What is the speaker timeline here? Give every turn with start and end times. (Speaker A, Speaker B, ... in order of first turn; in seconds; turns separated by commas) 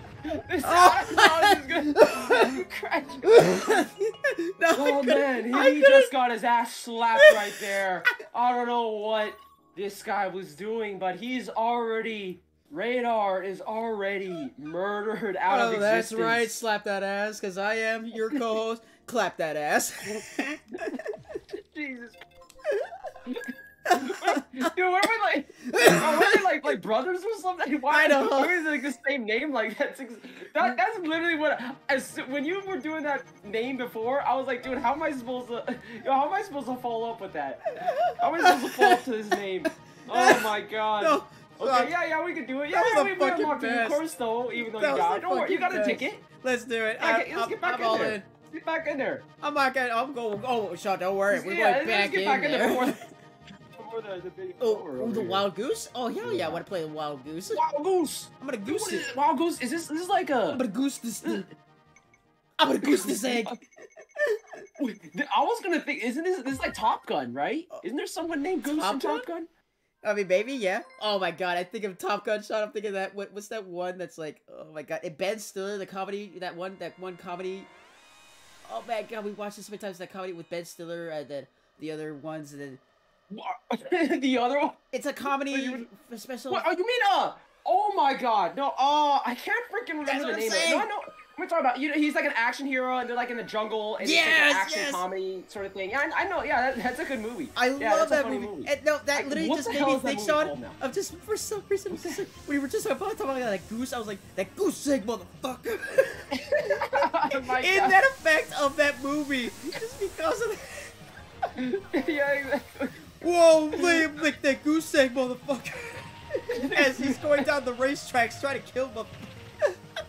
Speaker A: 0.5-3.5, Speaker B: 0.6-2.6, Speaker B: 3.2-6.1, Speaker A: 4.7-16.5, Speaker B: 7.1-8.2, Speaker B: 15.5-21.2, Speaker A: 21.5-22.2, Speaker B: 22.7-23.1, Speaker A: 23.3-46.2, Speaker B: 23.9-24.7, Speaker B: 25.6-26.5, Speaker B: 27.9-28.6, Speaker B: 37.7-39.0, Speaker B: 39.6-41.9, Speaker B: 42.7-44.0, Speaker B: 44.6-48.3, Speaker A: 47.0-49.2, Speaker B: 49.4-53.1, Speaker A: 51.3-53.0, Speaker A: 53.8-55.5, Speaker B: 54.6-57.6, Speaker A: 56.2-56.6, Speaker A: 57.5-60.6, Speaker B: 58.4-59.1, Speaker B: 60.5-61.5, Speaker A: 61.2-61.5, Speaker B: 62.6-63.6, Speaker A: 62.8-63.6, Speaker B: 64.2-64.6, Speaker A: 64.8-69.5, Speaker B: 68.6-69.3, Speaker B: 70.0-77.7, Speaker B: 78.7-82.8, Speaker A: 83.3-85.9, Speaker B: 84.9-86.7, Speaker A: 86.5-100.8, Speaker B: 90.0-90.9, Speaker B: 94.0-95.0, Speaker B: 97.5-110.9, Speaker A: 101.9-102.2, Speaker A: 106.3-108.0, Speaker A: 111.6-113.0, Speaker B: 113.2-119.8, Speaker A: 113.7-114.1, Speaker A: 116.6-117.4